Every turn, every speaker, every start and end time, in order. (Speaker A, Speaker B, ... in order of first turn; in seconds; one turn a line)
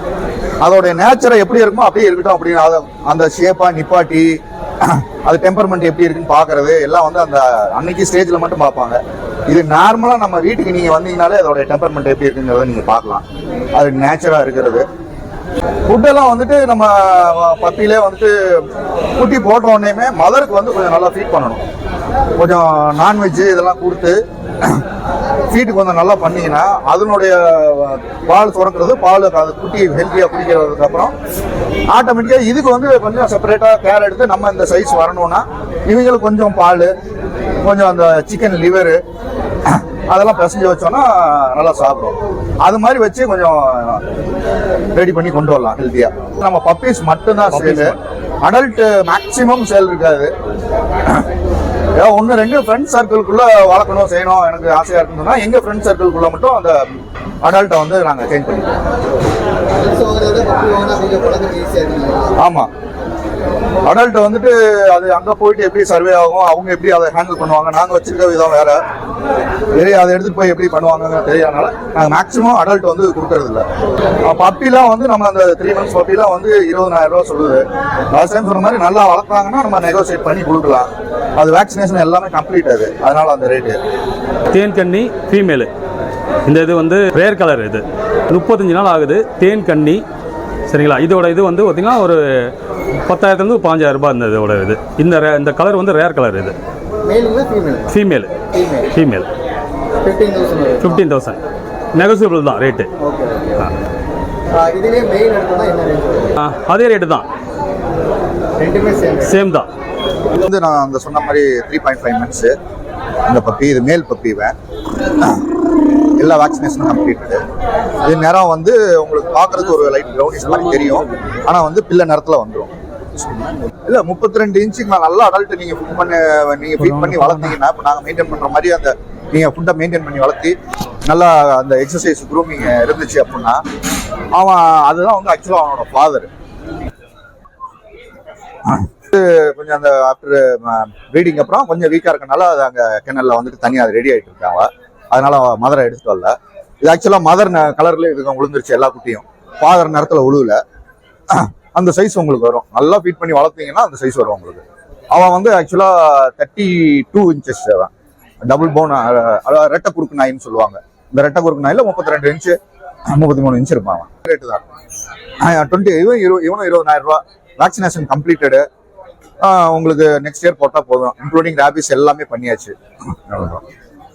Speaker A: 0.6-14.8
Speaker A: 15.8-21.6
Speaker A: 22.4-24.8
Speaker A: 25.5-31.1
Speaker A: 31.9-36.9
Speaker A: 37.6-39.0
Speaker A: 39.6-44.0
Speaker A: 44.9-50.3
Speaker B: 47.5-48.0
Speaker A: 51.9-58.8
Speaker C: 59.8-62.4
Speaker A: 62.4-62.7
Speaker A: 63.8-68.8
Speaker A: 69.7-73.7
Speaker A: 74.2-83.8
Speaker B: 84.5-85.7
Speaker B: 86.4-90.0
Speaker B: 90.7-92.5
Speaker B: 93.0-96.5
Speaker C: 97.0-98.0
Speaker B: 97.9-98.3
Speaker C: 98.5-98.9
Speaker B: 98.9-99.3
Speaker C: 100.0-101.0
Speaker B: 100.8-101.4
Speaker B: 101.9-102.9
Speaker C: 103.0-103.6
Speaker C: 104.5-106.3
Speaker B: 106.4-107.2
Speaker C: 108.6-109.4
Speaker B: 109.2-109.7
Speaker A: 110.3-112.5
Speaker A: 113.2-114.5
Speaker A: 115.1-115.5
Speaker A: 116.2-117.4
Speaker A: 118.0-122.7
Speaker A: 123.8-133.6
Speaker B: 126.8-127.5
Speaker A: 134.3-136.3
Speaker A: 138.7-150.6
Speaker A: 151.3-157.9
Speaker A: 158.4-162.6
Speaker A: 163.1-164.6
Speaker A: 165.4-168.6
Speaker A: 169.4-173.6